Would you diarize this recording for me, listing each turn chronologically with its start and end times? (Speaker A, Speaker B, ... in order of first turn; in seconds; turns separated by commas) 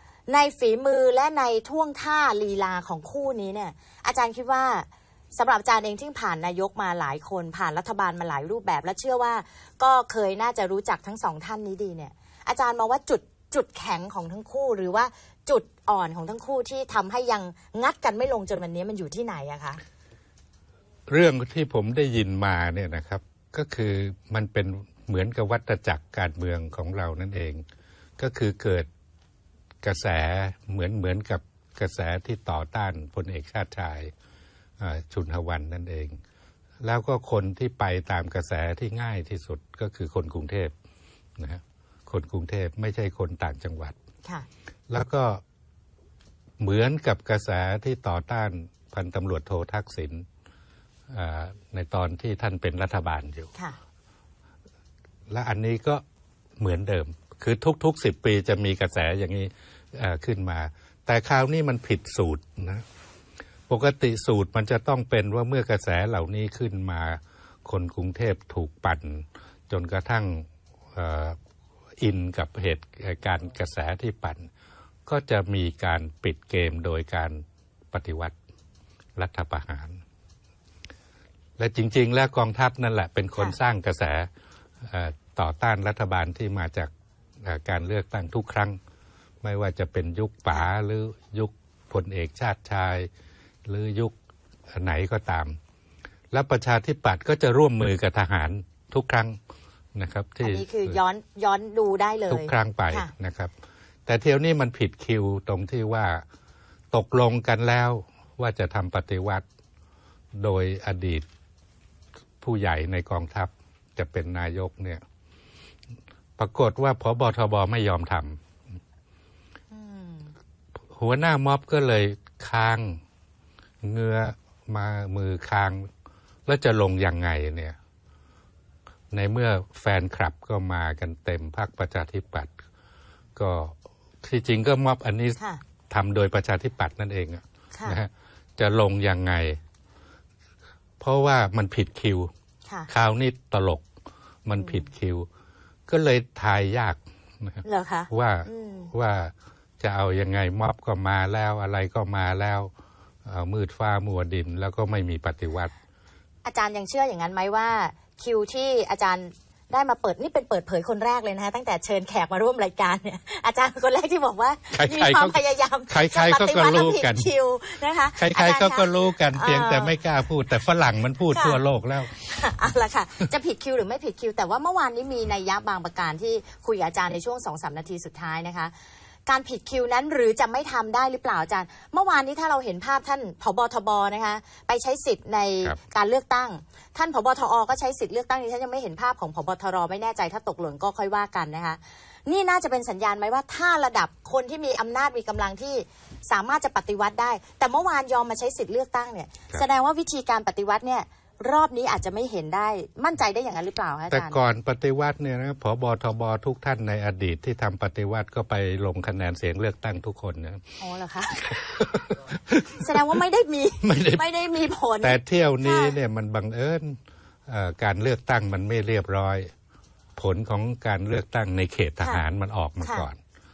Speaker A: 0.3-19.8, Speaker B: 21.1-27.6, Speaker B: 28.2-28.9, Speaker B: 29.8-34.1, Speaker B: 34.8-36.2, Speaker B: 36.8-40.7, Speaker B: 41.4-44.0, Speaker B: 44.9-45.4, Speaker B: 46.6-50.2, Speaker B: 51.1-53.5, Speaker B: 55.3-56.0, Speaker B: 56.6-62.8, Speaker B: 63.7-71.4, Speaker B: 72.0-74.5, Speaker B: 75.0-78.3, Speaker B: 79.2-80.0, Speaker B: 81.6-84.3, Speaker B: 84.8-88.8, Speaker B: 89.4-93.1, Speaker B: 93.7-94.2, Speaker B: 94.7-95.6, Speaker B: 96.3-99.4, Speaker B: 99.9-101.0, Speaker A: 100.4-103.1, Speaker B: 102.3-103.5, Speaker B: 104.0-106.2, Speaker B: 106.9-109.5, Speaker B: 110.3-111.2, Speaker B: 112.4-115.0, Speaker B: 116.4-118.4, Speaker A: 119.7-120.3, Speaker B: 120.9-123.0, Speaker B: 123.8-125.9, Speaker B: 126.5-127.8, Speaker B: 129.1-132.5, Speaker B: 133.3-139.6, Speaker B: 141.0-142.3, Speaker B: 142.9-143.8, Speaker B: 144.4-145.3, Speaker A: 144.6-144.8, Speaker B: 145.9-152.7, Speaker A: 147.6-148.9, Speaker B: 153.2-155.7, Speaker A: 156.4-169.9, Speaker B: 164.7-165.4, Speaker B: 165.9-167.3, Speaker B: 168.2-172.1, Speaker A: 171.3-178.7, Speaker A: 179.3-204.4, Speaker B: 204.1-210.8, Speaker A: 210.8-211.5, Speaker B: 211.3-213.0, Speaker A: 212.8-216.0, Speaker B: 213.8-214.2, Speaker B: 215.0-219.5, Speaker B: 220.2-223.2, Speaker A: 222.8-223.1